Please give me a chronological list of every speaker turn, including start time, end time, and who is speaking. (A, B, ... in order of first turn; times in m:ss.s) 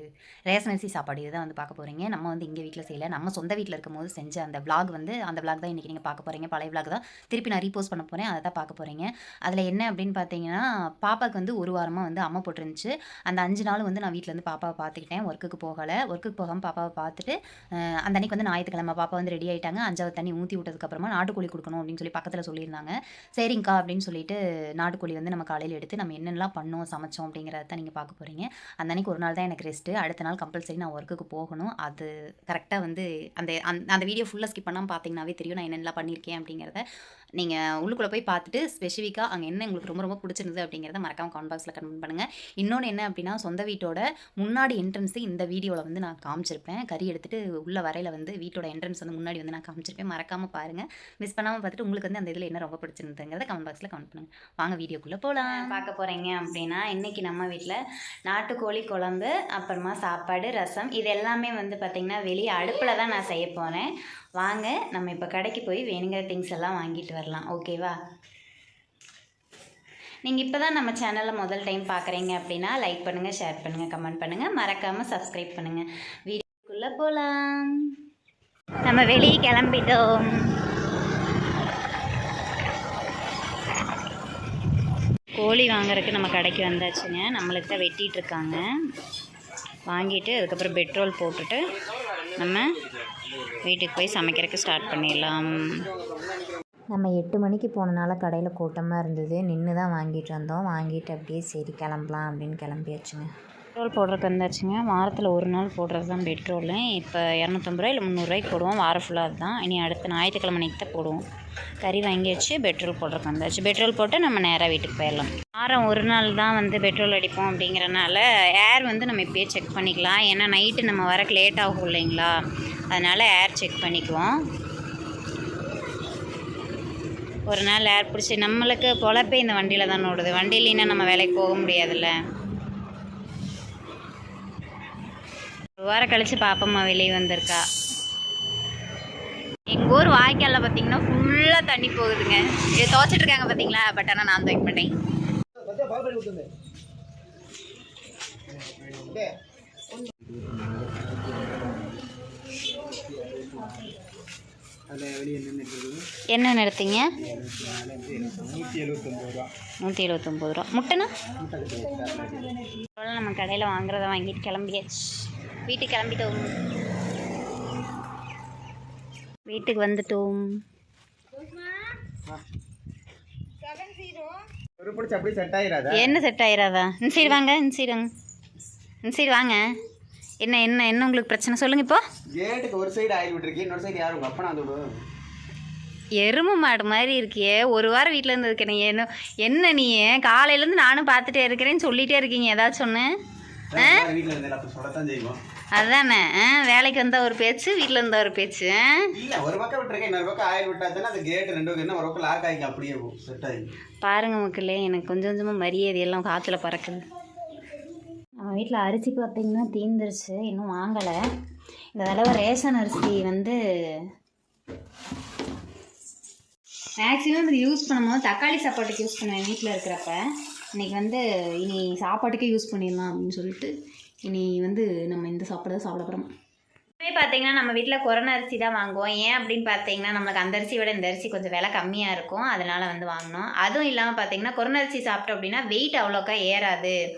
0:00.5-0:17.4 A
0:18.0-0:36.8 A
0:37.4-1:08.0 A
1:10.2-1:17.9 A
1:18.8-1:20.5 A
1:25.4-1:28.6 A
1:29.9-1:31.6 A
1:32.4-1:32.7 A
1:33.6-1:35.8 A
1:36.9-1:43.3 B
1:43.8-1:51.2 A
1:51.8-2:02.4 A
2:02.9-2:04.4 A
2:07.5-2:12.2 A
2:15.8-2:17.6 A
2:19.7-2:24.9 A
2:25.6-2:26.5 C
2:28.5-2:29.3 C
2:30.1-2:32.1 C
2:32.7-2:34.0 C
2:34.9-2:36.0 C
2:36.3-2:37.1 A
2:37.2-2:39.5 C
2:39.8-2:41.1 A
2:41.4-2:42.7 C
2:43.0-2:46.5 A
2:49.5-2:50.5 A
2:54.8-2:56.2 C
2:55.9-2:58.1 A
2:59.0-2:59.6 A
3:00.4-3:02.0 A
3:02.4-3:04.9 C
3:06.2-3:13.1 A
3:13.7-3:15.4 C
3:13.8-3:14.1 A
3:15.8-3:19.1 A
3:19.1-3:23.7 C
3:24.0-3:27.0 A
3:28.4-3:31.2 A
3:32.0-3:34.0 A
3:37.0-3:40.2 A
3:40.8-3:43.7 A
3:44.2-3:46.3 A
3:47.0-3:57.0 A